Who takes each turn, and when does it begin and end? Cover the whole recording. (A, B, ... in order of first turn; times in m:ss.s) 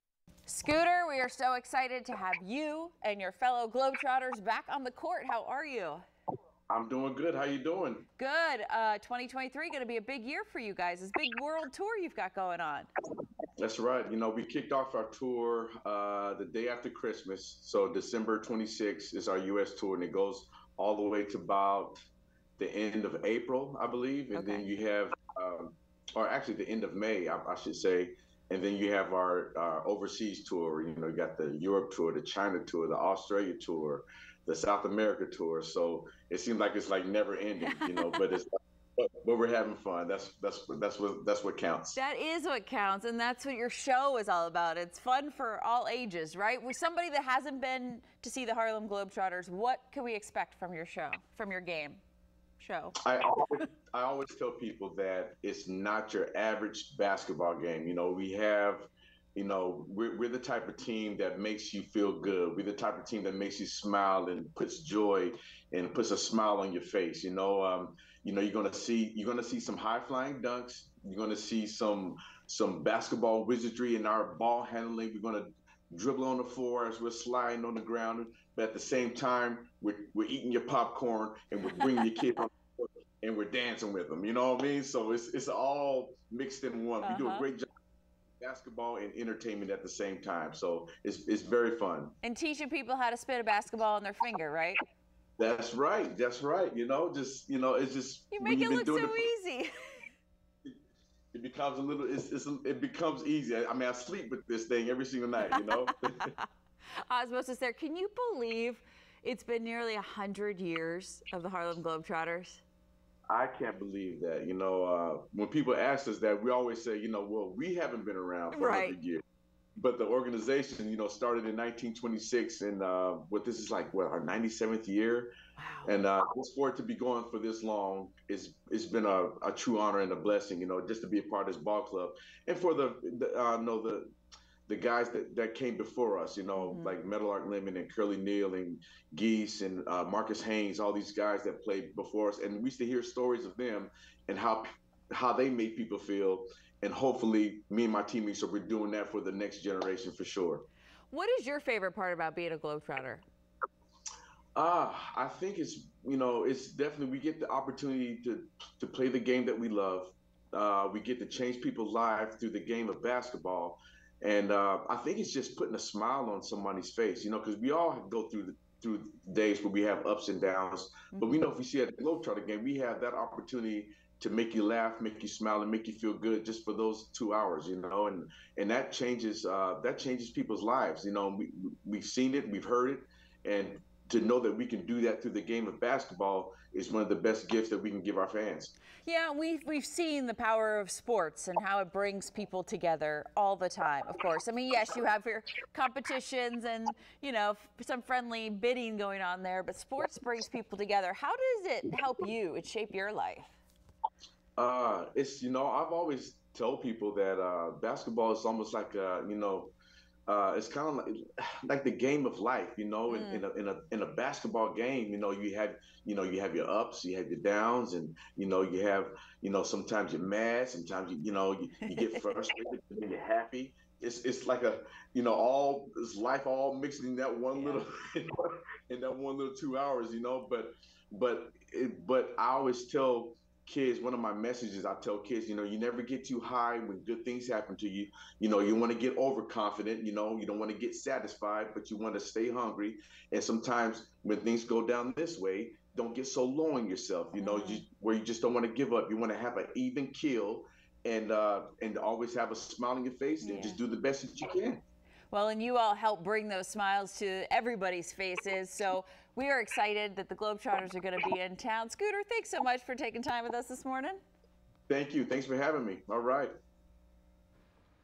0:00.5-0:06.0 A
0:06.7-0:08.0 B
0:08.2-0:12.9 A
0:13.6-0:22.0 B
0:22.6-0:42.0 B
0:24.3-0:24.7 A
0:37.7-0:38.2 A
0:41.9-0:52.0 A
0:52.6-0:53.0 A
0:53.0-1:27.7 B
1:21.8-1:22.1 A
1:27.0-1:27.4 A
1:28.4-1:32.1 B
1:32.2-1:34.8 A
1:35.4-1:39.3 B
1:38.3-1:40.1 A
1:41.3-1:46.4 B
1:45.4-1:46.4 A
1:47.0-1:52.6 A
1:53.3-1:59.2 B
1:58.5-1:59.0 A
1:59.8-2:05.3 B
2:05.6-2:06.0 A
2:05.8-2:14.1 B
2:14.7-2:30.7 B
2:16.5-2:17.0 A
2:31.1-2:33.2 A
2:34.6-3:08.7 B
2:51.1-2:51.4 A
3:09.0-3:23.6 A
3:24.6-3:29.7 B
3:30.3-4:14.8 B
3:33.1-3:33.4 A
3:41.9-3:42.3 A
3:47.5-3:47.8 A
4:07.4-4:07.8 A
4:13.4-4:13.8 A
4:15.3-4:24.2 A
4:24.9-4:26.5 B